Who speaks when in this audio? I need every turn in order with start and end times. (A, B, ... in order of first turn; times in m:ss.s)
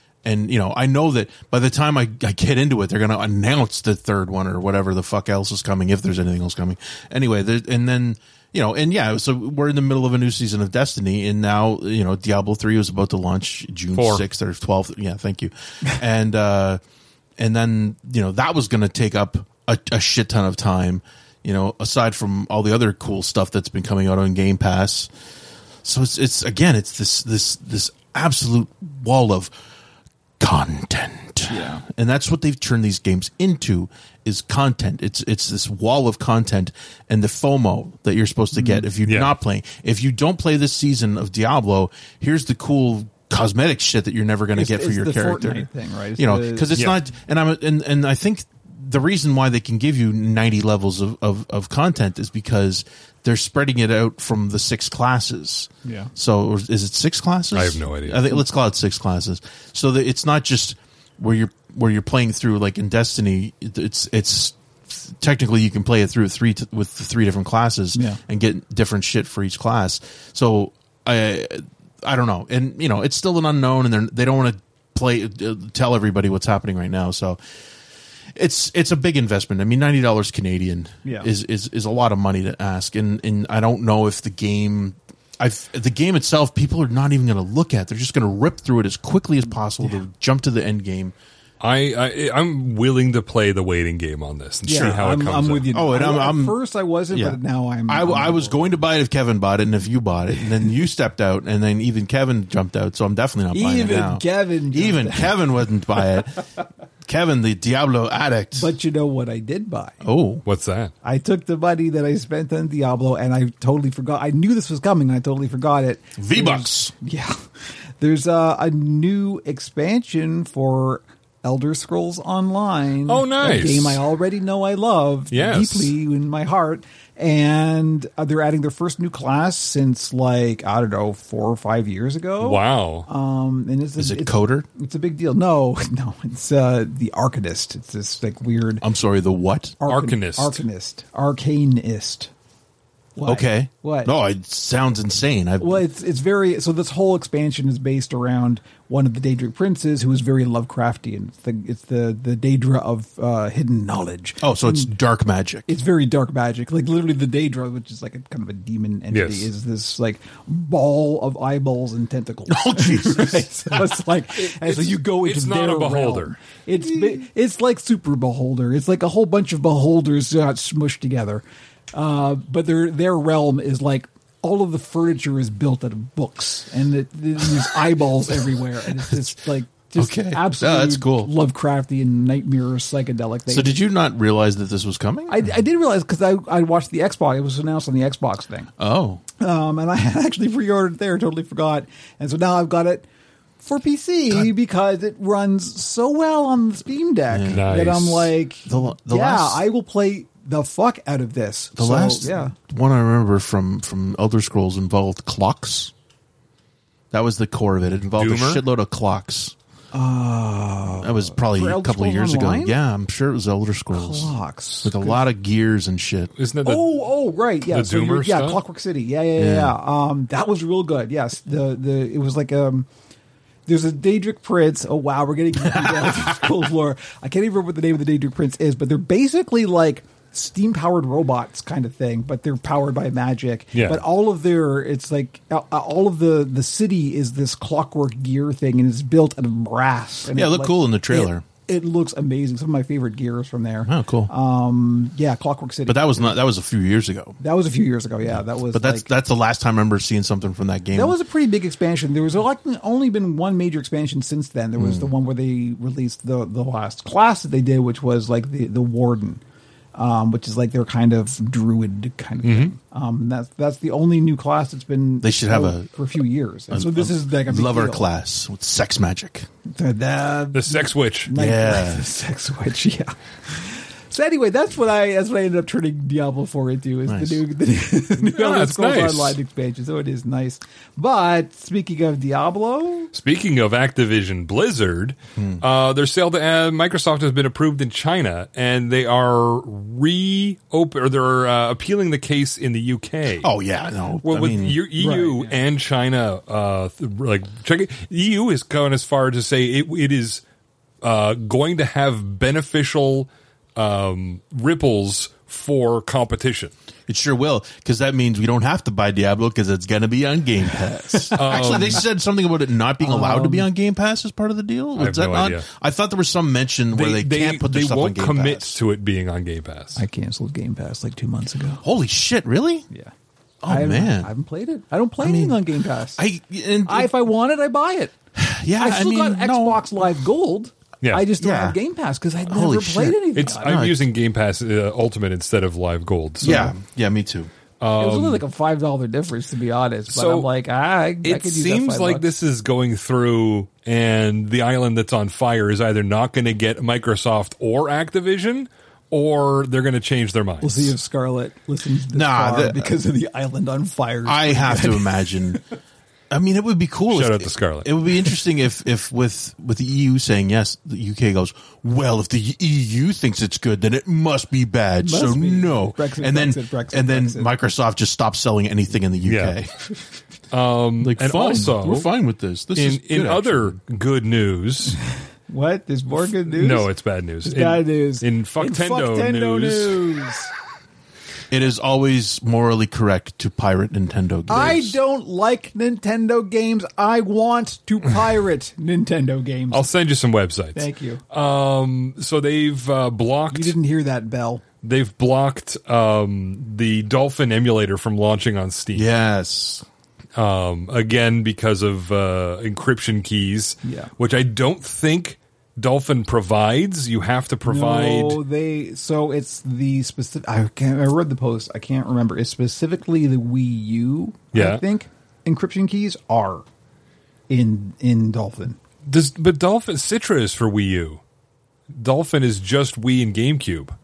0:00.2-0:16.8 A
0:13.9-0:14.2 B
0:17.4-0:25.1 A
0:25.8-0:29.5 A
0:30.4-1:17.4 A
0:31.5-0:31.8 C
0:38.5-0:38.9 C
0:39.1-0:39.3 B
0:44.5-0:46.8 C
0:55.8-0:56.1 C
0:57.5-0:58.4 B
1:07.9-1:08.2 C
1:18.3-1:31.1 A
1:31.6-1:35.7 B
1:34.6-1:38.6 C
1:34.7-1:35.0 A
1:35.7-1:36.6 A
1:37.1-1:46.4 A
1:43.5-1:45.3 C
1:47.0-1:48.7 A
1:48.5-1:50.0 C
1:50.0-1:50.4 A
1:50.4-1:50.9 B
1:51.0-1:57.4 C
1:56.2-1:56.9 A
1:58.0-2:18.8 C
2:03.1-2:04.0 B
2:05.3-2:05.9 B
2:12.4-2:13.1 B
2:14.0-2:14.7 A
2:18.8-2:19.8 A
2:19.8-2:22.3 C
2:19.8-2:20.6 B
2:23.2-2:24.1 C
2:23.2-2:25.8 A
2:25.6-2:34.9 C
2:34.4-2:35.7 A
2:35.7-3:03.8 C
2:39.1-2:39.5 B
2:42.5-2:44.0 A
2:44.4-2:46.4 B
3:00.0-3:01.3 A
3:03.5-3:05.4 A
3:05.3-3:08.7 C
3:08.8-3:09.2 A
3:09.4-3:13.0 C
3:13.6-3:22.5 C
3:17.3-3:17.6 A
3:17.5-3:18.3 B
3:18.6-3:19.6 A
3:21.8-3:25.9 A
3:27.1-3:29.5 A
3:28.1-3:28.6 B
3:29.9-3:32.8 C
3:31.0-3:34.3 A
3:33.9-3:35.2 C
3:34.8-3:36.3 A
3:36.4-3:36.9 B
3:36.6-3:42.9 C
3:37.7-3:38.6 B
3:39.4-3:39.8 A
3:43.7-4:06.3 C
3:45.8-3:46.3 A
3:53.7-3:54.0 B
4:00.3-4:01.4 A
4:03.8-4:04.3 A
4:05.8-4:07.4 A
4:07.4-4:09.1 C
4:08.7-4:11.2 A
4:10.9-4:19.4 C
4:14.8-4:15.1 A
4:19.9-4:28.1 C
4:22.4-4:22.7 B
4:25.2-4:25.9 A
4:26.7-4:29.5 A
4:29.7-4:43.1 C
4:30.5-4:31.3 B
4:31.3-4:32.0 A
4:37.1-4:37.4 A
4:38.2-4:39.4 B
4:43.1-4:53.5 B
4:45.4-4:45.6 A
4:53.4-4:54.8 A
4:54.2-5:00.4 B
4:55.0-4:55.5 C
5:01.0-5:06.7 B
5:07.1-5:18.8 A
5:11.2-5:12.0 C
5:11.3-5:12.0 B
5:13.0-5:13.7 C
5:15.0-5:15.6 B
5:16.9-5:20.0 B
5:20.0-5:21.8 C
5:21.8-5:22.8 A
5:23.6-5:24.3 A
5:23.7-5:26.2 C
5:25.2-5:27.1 A
5:26.8-5:28.1 C
5:28.3-5:29.8 A
5:28.8-5:33.8 C
5:31.0-5:31.3 B
5:31.4-5:31.8 A
5:32.5-5:34.0 A
5:33.4-5:36.7 B
5:36.4-5:37.5 A
5:36.4-5:36.7 C
5:37.8-5:38.4 B
5:38.0-5:42.3 C
5:40.1-5:40.5 B
5:41.2-5:50.9 B
5:50.6-5:55.6 C
5:52.1-5:53.0 A
5:54.2-5:55.6 A
5:56.3-6:09.7 A
5:57.1-5:57.9 B
6:05.0-6:07.5 C
6:09.2-6:09.6 B
6:10.5-6:12.1 B
6:11.0-6:13.8 A
6:12.7-6:15.0 B
6:15.5-6:16.9 C
6:16.5-6:20.0 B
6:17.4-6:20.5 C
6:21.5-6:25.0 A
6:24.5-6:29.9 C
6:29.7-6:33.8 B
6:30.7-6:31.2 C
6:33.5-6:34.6 C
6:34.8-6:39.0 B
6:38.9-6:39.8 A
6:40.4-6:48.4 B
6:43.8-6:44.1 C
6:47.6-6:56.6 C
6:54.5-6:54.8 B
6:57.5-6:58.8 C
6:59.0-7:01.2 B
7:01.9-7:03.9 B